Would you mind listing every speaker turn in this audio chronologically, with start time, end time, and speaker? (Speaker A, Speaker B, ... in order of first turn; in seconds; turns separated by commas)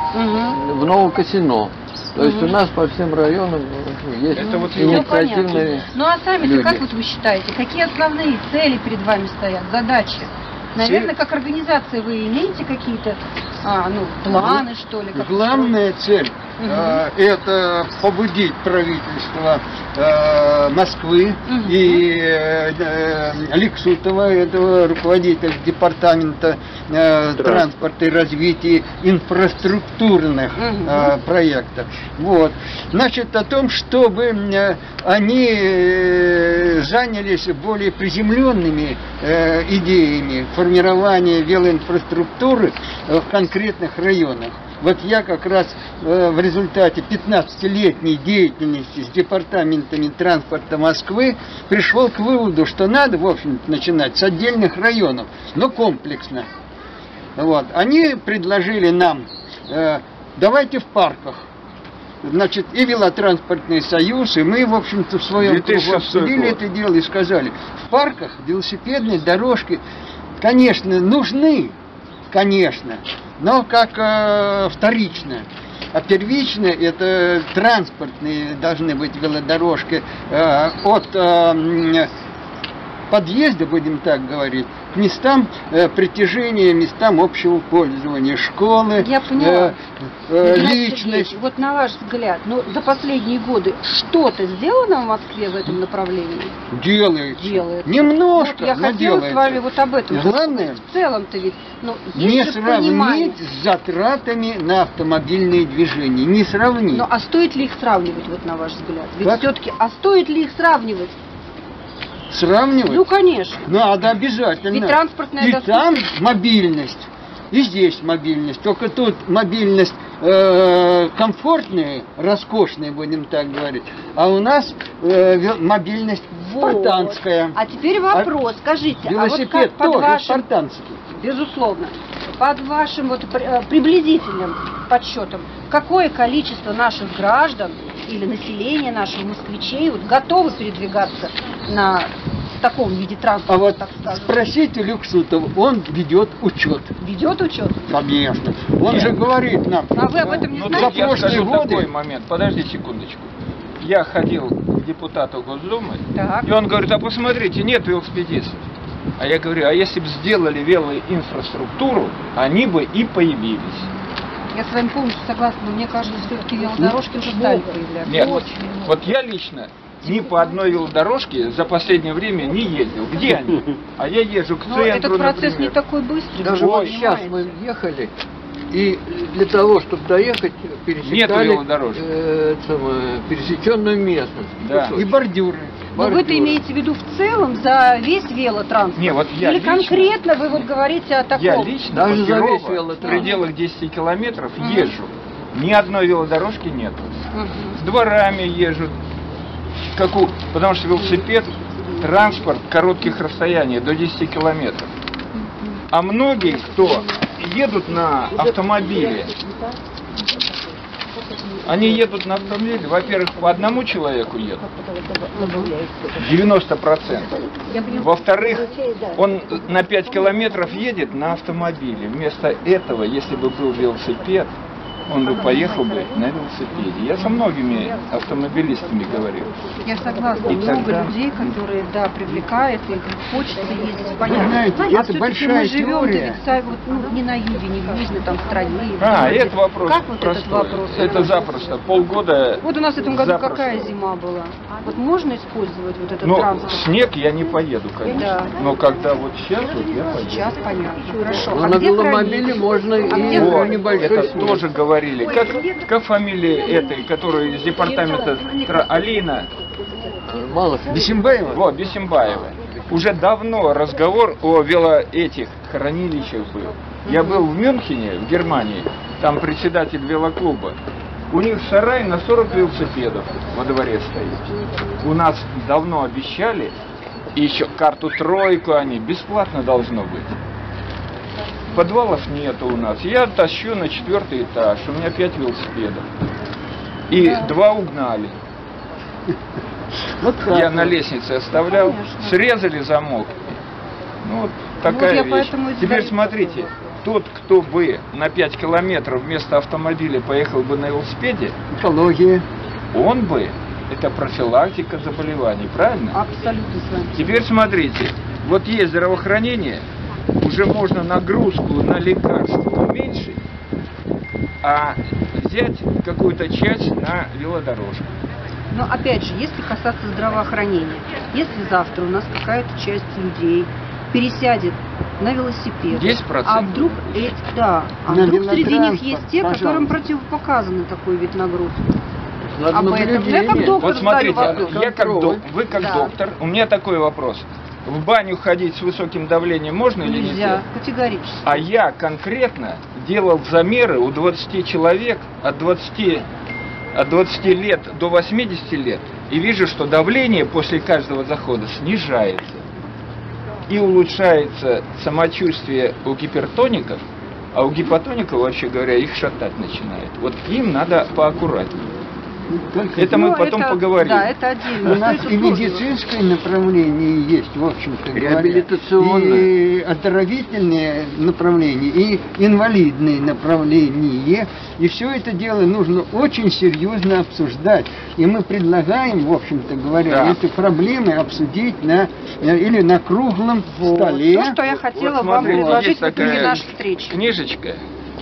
Speaker A: 0.1-0.6, Speaker B: 0.4-5.9, Speaker A: 2.2-2.6, Speaker C: 4.3-5.9, Speaker A: 4.6-15.8, Speaker B: 6.4-6.8, Speaker D: 10.8-11.1, Speaker D: 14.3-56.5, Speaker A: 16.6-17.0, Speaker A: 21.5-22.0, Speaker C: 27.4-27.7, Speaker A: 30.6-31.1, Speaker D: 57.4-61.4, Speaker D: 62.2-69.8, Speaker C: 65.4-66.6, Speaker D: 70.4-71.7, Speaker D: 72.3-82.1, Speaker D: 83.1-91.3, Speaker A: 89.0-89.8, Speaker A: 90.4-96.5, Speaker D: 96.7-100.8, Speaker A: 97.4-103.4, Speaker D: 102.1-107.1, Speaker A: 106.9-111.1, Speaker D: 109.2-109.5, Speaker D: 112.3-113.0, Speaker A: 112.9-113.6, Speaker D: 113.6-127.6, Speaker A: 114.7-116.0, Speaker A: 126.4-130.4, Speaker D: 129.0-131.0, Speaker A: 131.1-144.3, Speaker D: 143.5-146.9, Speaker A: 147.0-147.9, Speaker D: 147.9-151.9, Speaker C: 148.8-149.2, Speaker A: 149.9-151.5, Speaker C: 150.5-158.6, Speaker A: 156.1-156.5, Speaker C: 159.2-163.9, Speaker A: 164.5-168.6, Speaker C: 168.0-175.8, Speaker A: 174.7-177.4, Speaker B: 176.4-178.1, Speaker C: 176.6-177.0, Speaker B: 178.7-185.2, Speaker C: 181.0-182.0, Speaker C: 184.6-185.0, Speaker D: 184.9-185.9, Speaker B: 185.9-186.6, Speaker A: 186.0-191.8, Speaker C: 188.9-190.7, Speaker C: 191.3-197.2, Speaker B: 191.9-193.4, Speaker A: 193.0-193.4, Speaker A: 194.6-194.9, Speaker A: 197.3-197.8, Speaker C: 197.8-198.9, Speaker C: 199.9-204.9, Speaker A: 200.9-201.2, Speaker C: 205.9-209.3, Speaker C: 211.6-214.7, Speaker A: 215.3-215.8, Speaker C: 216.1-224.5, Speaker C: 225.1-229.5, Speaker A: 229.8-241.4, Speaker C: 230.4-231.1, Speaker D: 234.2-236.4, Speaker C: 239.0-243.9, Speaker A: 242.6-246.9, Speaker C: 246.2-250.4, Speaker A: 248.1-248.5, Speaker A: 250.2-254.2, Speaker B: 251.4-254.7, Speaker C: 253.3-259.5, Speaker B: 260.3-261.2, Speaker D: 260.9-261.6, Speaker C: 261.5-270.8, Speaker A: 267.1-267.4, Speaker C: 271.3-274.5, Speaker C: 275.0-276.8, Speaker C: 277.3-280.4, Speaker C: 281.7-286.1, Speaker C: 287.1-288.4, Speaker A: 287.1-287.5, Speaker D: 290.1-291.0, Speaker C: 290.4-293.6, Speaker A: 291.6-292.4, Speaker C: 294.2-301.5, Speaker A: 294.8-296.7, Speaker D: 301.7-302.4, Speaker C: 302.9-306.2, Speaker A: 306.1-307.3, Speaker C: 307.1-309.8, Speaker C: 310.4-313.4, Speaker C: 314.6-318.1, Speaker A: 318.7-331.9, Speaker C: 325.9-327.3, Speaker D: 328.1-330.0, Speaker B: 332.6-335.4, Speaker A: 332.7-334.8, Speaker D: 332.8-333.8, Speaker C: 333.8-340.6, Speaker D: 334.7-335.1, Speaker A: 335.7-336.1, Speaker A: 340.0-341.6, Speaker C: 341.4-346.3, Speaker C: 346.9-352.6, Speaker C: 353.7-357.0, Speaker C: 357.5-361.9, Speaker D: 362.5-363.2, Speaker C: 362.9-364.3, Speaker A: 363.1-365.8, Speaker D: 364.8-384.6, Speaker B: 368.1-369.5, Speaker C: 380.1-380.4, Speaker A: 383.8-387.2, Speaker C: 384.8-387.8, Speaker D: 385.3-386.5